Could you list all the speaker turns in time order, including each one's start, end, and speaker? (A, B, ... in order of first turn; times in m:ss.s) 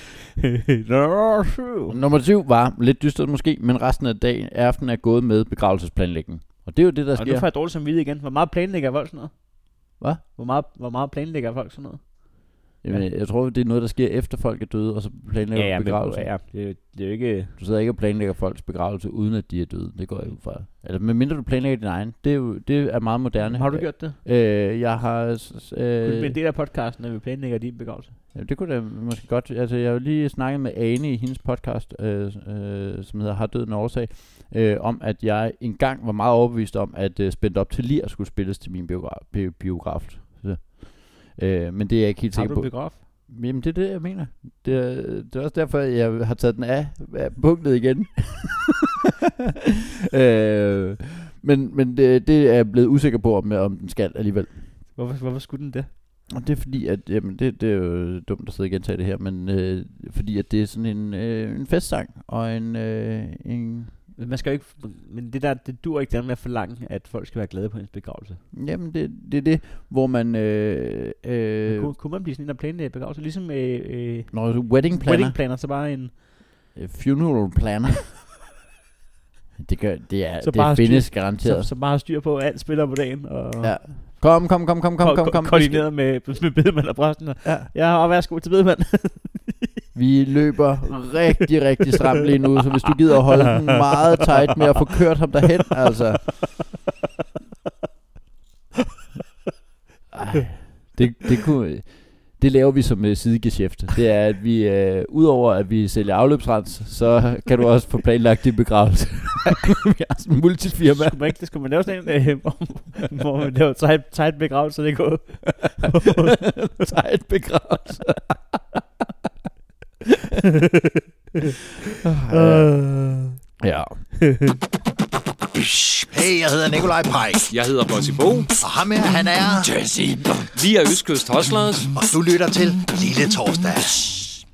0:00.4-0:02.0 A
0:01.9-0:07.5 B
0:07.1-0:13.1 A
0:12.8-0:16.4 B
0:15.5-0:17.5 A
0:17.6-0:26.4 B
0:23.4-0:24.2 A
0:26.0-0:28.1 A
0:28.3-0:48.8 B
0:42.3-0:43.0 A
0:50.1-0:54.6 B
0:55.0-0:55.9 A
0:56.3-1:04.0 B
1:04.2-1:08.4 A
1:08.5-1:11.9 B
1:11.6-1:16.1 A
1:14.3-1:15.4 B
1:16.7-1:18.1 B
1:19.6-1:21.7 B
1:20.4-1:24.4 A
1:23.6-1:25.9 B
1:25.0-1:29.8 A
1:29.9-1:36.5 B
1:40.1-1:51.2 B
1:50.8-1:56.4 A
1:56.5-1:58.6 B
2:02.0-2:02.7 B
2:02.3-2:03.3 A
2:03.6-2:04.0 B
2:04.3-2:04.6 A
2:05.9-2:07.5 C
2:07.5-2:08.6 D
2:08.6-2:09.7 C
2:10.5-2:11.9 D
2:11.9-2:14.4 C